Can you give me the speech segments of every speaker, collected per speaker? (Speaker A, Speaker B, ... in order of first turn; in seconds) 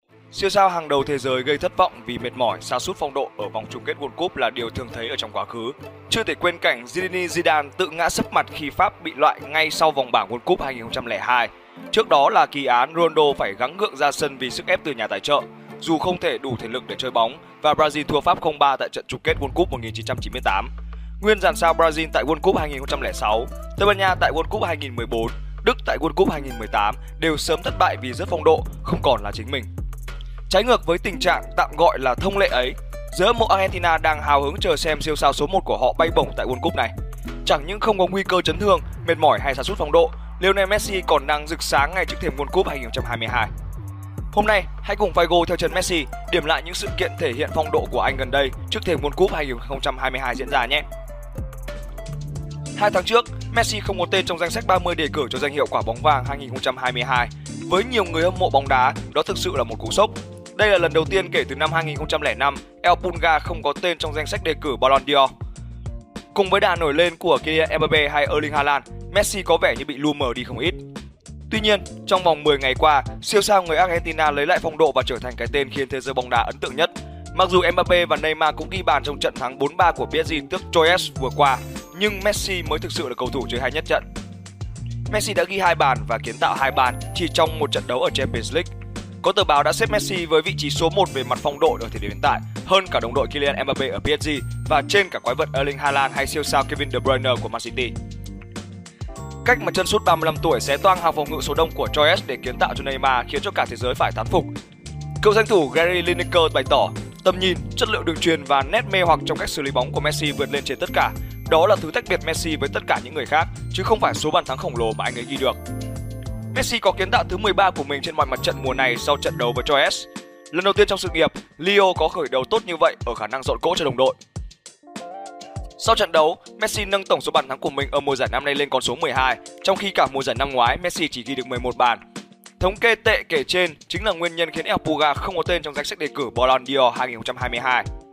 Speaker A: 0.3-20.7, 21.2-29.7, 30.5-36.9, 37.4-43.5, 44.3-50.8, 52.8-65.3, 66.3-70.8, 71.5-84.0, 85.1-88.7, 89.2-97.9, 99.4-104.5, 105.2-115.6, 116.5-124.2, 125.8-132.0, 132.6-137.8